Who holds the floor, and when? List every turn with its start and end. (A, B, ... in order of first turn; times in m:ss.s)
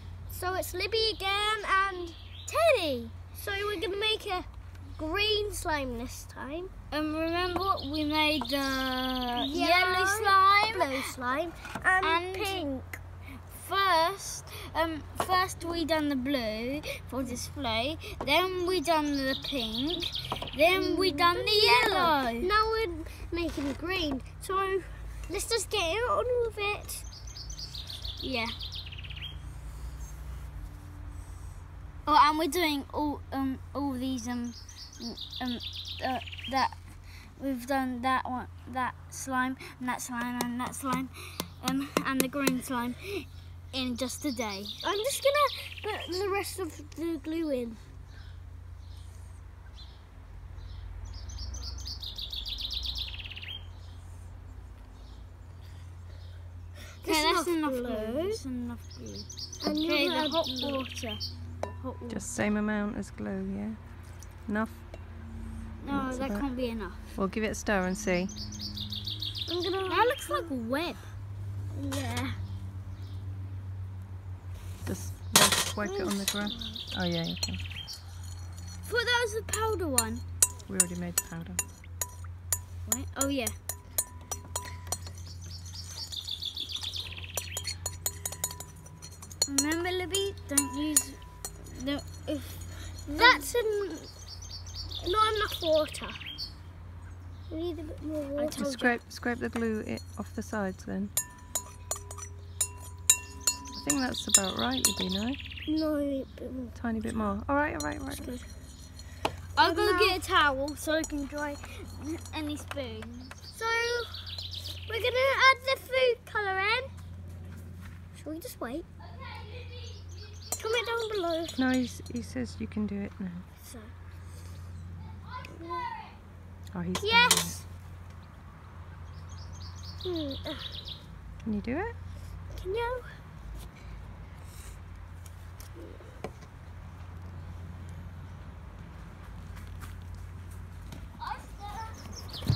0:00.3-0:02.2 A
0:02.5-0:03.2 B
0:03.4-0:06.7 A
0:06.9-0:11.1 B
0:09.4-0:13.0 A
0:12.0-0:12.7 B
0:13.4-0:22.5 B
0:20.7-0:27.0 A
0:28.2-0:28.5 B
0:32.0-0:36.8 B
0:37.4-0:44.8 B
0:44.8-0:47.8 A
0:57.0-0:58.4 A
0:57.0-1:02.4 B
0:59.6-1:00.9 A
1:02.1-1:03.8 C
1:04.5-1:04.8 C
1:05.8-1:07.0 B
1:05.9-1:06.5 C
1:07.2-1:08.3 C
1:09.5-1:10.5 A
1:09.9-1:11.1 B
1:11.7-1:12.4 A
1:14.8-1:17.6 C
1:15.8-1:16.6 A
1:18.8-1:20.2 B
1:20.7-1:21.6 C
1:22.9-1:23.6 B
1:29.5-1:33.5 B
1:33.1-1:34.1 A
1:35.0-1:36.2 A
1:37.5-1:38.6 A
1:38.4-1:39.0 B
1:38.5-1:41.1 C
1:43.7-1:45.4 C
1:45.7-1:47.3 A
1:46.8-1:48.3 C
1:48.1-1:48.5 A
1:49.6-1:53.4 B
1:49.6-1:50.2 A
1:53.5-1:54.1 A
1:54.9-1:56.9 A
1:58.1-1:58.9 A
1:59.0-2:01.0 B
2:00.6-2:01.6 A
2:01.6-2:03.4 C
2:03.6-2:03.9 B
2:05.0-2:06.2 B
2:05.5-2:05.9 A
2:06.7-2:07.6 C
2:07.0-2:07.6 A
2:10.0-2:10.7 A
2:11.4-2:12.0 C
2:12.5-2:13.0 A
2:21.2-2:22.0 B